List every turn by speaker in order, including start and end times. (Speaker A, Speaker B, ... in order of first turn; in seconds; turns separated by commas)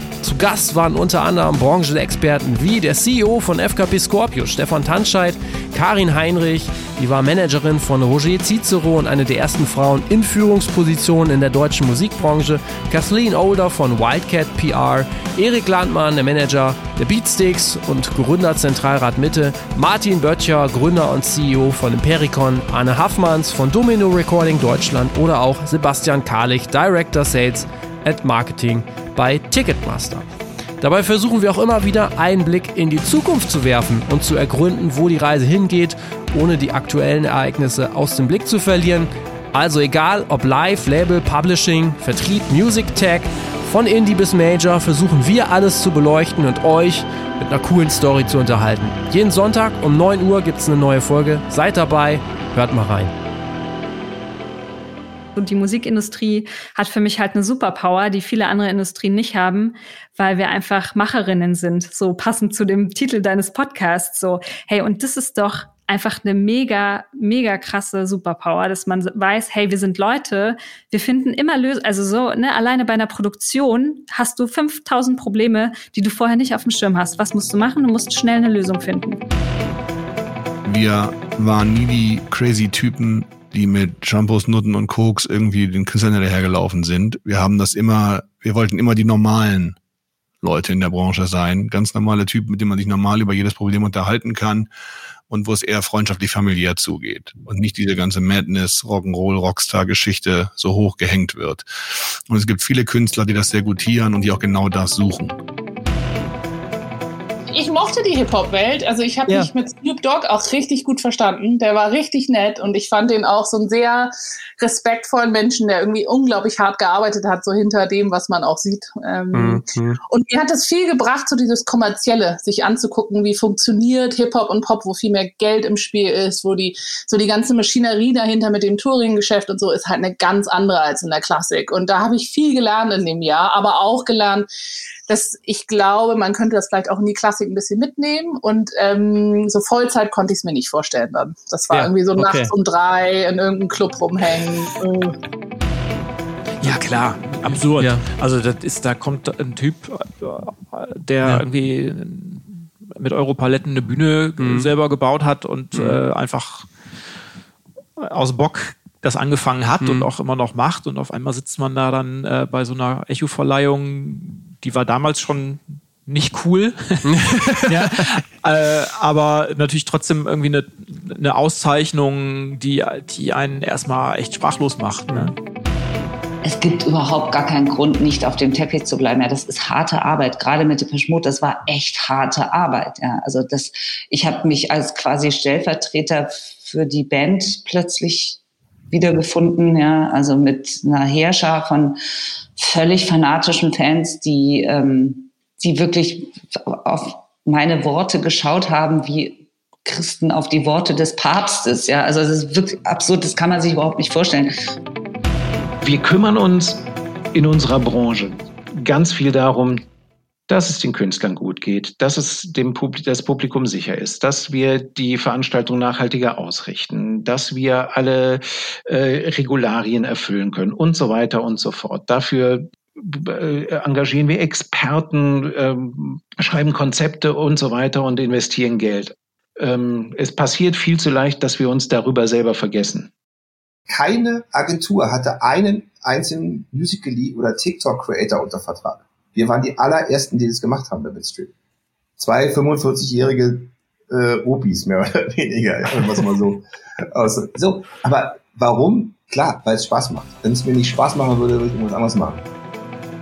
Speaker A: 0.2-30.2, Speaker A: 30.8-53.1, Speaker B: 55.4-79.2, Speaker C: 80.6-89.8, Speaker C: 90.4-94.7, Speaker C: 95.3-101.7, Speaker C: 102.3-105.3, Speaker D: 107.5-134.5, Speaker D: 135.1-145.1, Speaker E: 146.6-156.7, Speaker A: 154.4-154.7, Speaker E: 158.0-175.3, Speaker A: 159.8-160.1, Speaker A: 167.1-167.8, Speaker F: 176.4-188.4, Speaker F: 188.9-192.0, Speaker F: 192.6-204.5, Speaker G: 205.8-206.8, Speaker G: 207.3-209.8, Speaker G: 210.5-233.1, Speaker H: 233.9-241.5, Speaker H: 242.2-252.4